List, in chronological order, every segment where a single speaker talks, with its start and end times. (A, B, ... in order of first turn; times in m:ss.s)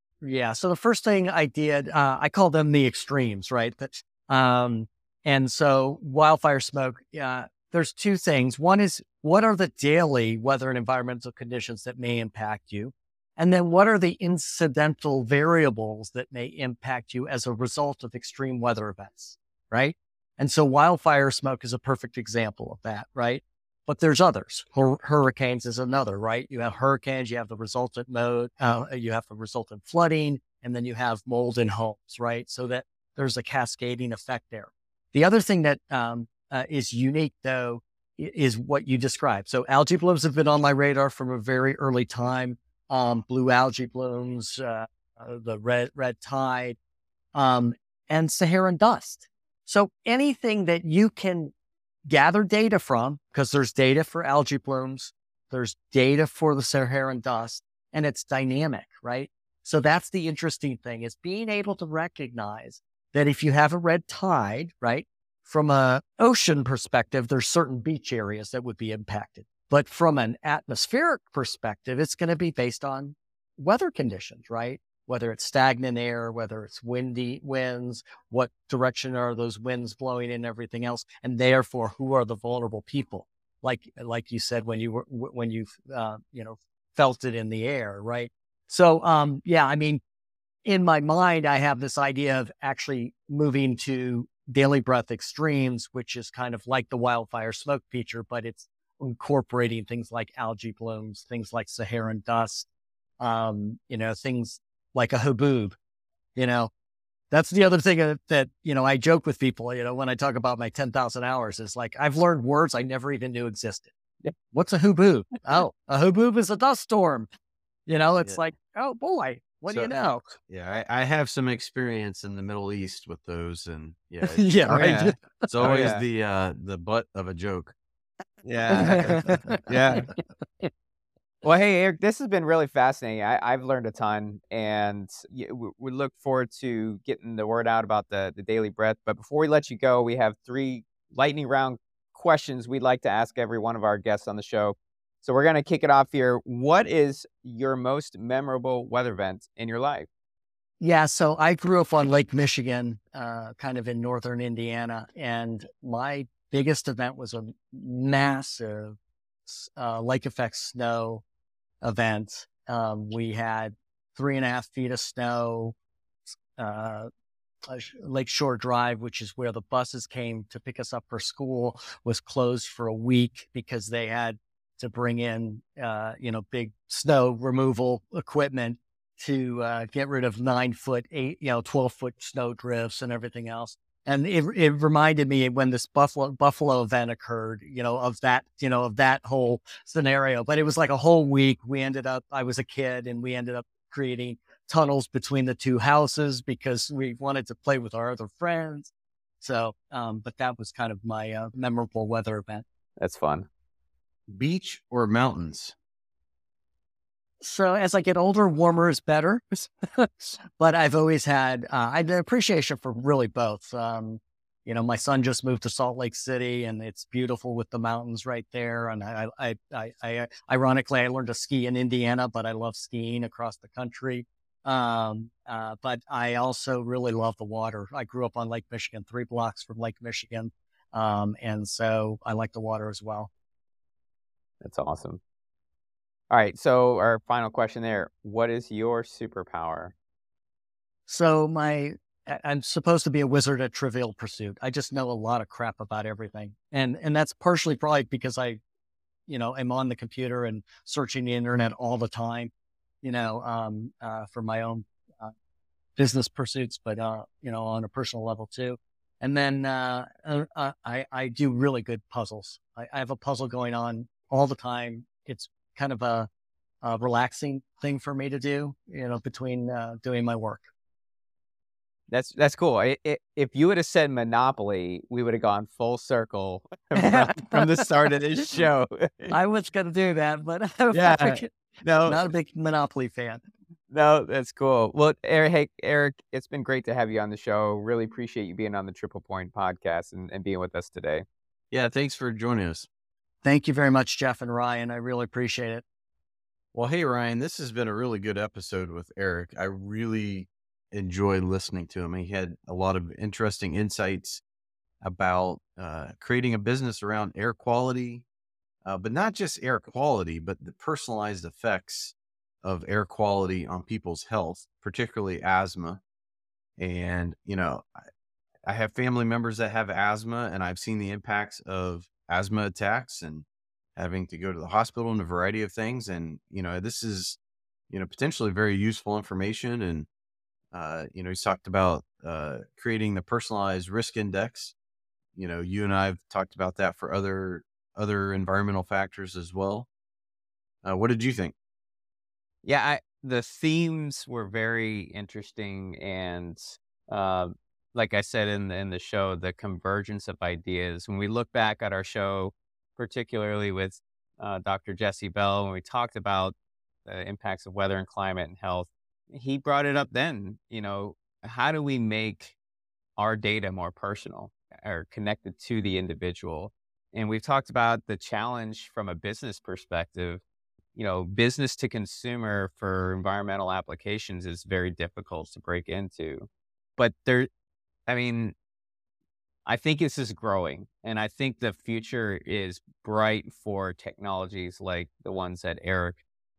0:00.2-0:46.8 A
0:47.3-0:51.5 A
0:52.1-1:30.0 A
1:30.6-1:42.7 A
1:43.2-1:45.8 A
1:46.4-1:46.7 A
1:47.3-1:53.9 A
1:54.5-1:57.3 A
1:57.9-2:00.2 A
1:59.7-2:07.8 B
2:04.2-2:05.5 A
2:04.7-2:06.0 C
2:08.4-2:10.1 B
2:08.7-2:10.1 A
2:11.4-2:30.1 C
2:30.8-2:41.2 A
2:41.8-2:45.8 A
2:46.6-2:47.1 A
2:47.7-3:22.6 A
3:23.0-3:23.5 C
3:24.3-3:25.8 B
3:27.4-3:53.3 A
3:54.6-3:55.2 C
3:56.3-3:59.9 C
4:01.1-4:08.6 A
4:09.3-4:15.3 A
4:16.0-4:26.3 A
4:26.8-4:30.7 A
4:32.1-4:39.4 C
4:37.0-4:37.7 A
4:39.3-4:41.5 A
4:40.9-4:42.2 B
4:42.0-4:43.4 A
4:43.9-4:51.2 C
4:51.7-4:52.9 B
4:53.4-4:55.8 A
4:56.7-5:04.4 B
5:05.0-5:08.2 B
5:08.8-5:16.0 B
5:16.8-5:18.0 B
5:18.6-5:23.4 B
5:24.0-5:27.4 B
5:27.9-5:30.1 B
5:30.7-5:34.8 B
5:35.4-5:39.9 B
5:40.8-5:41.5 B
5:42.6-5:56.6 C
5:57.1-6:02.6 C
6:03.2-6:10.4 C
6:11.0-6:17.5 C
6:18.1-6:18.6 C
6:19.7-6:26.2 C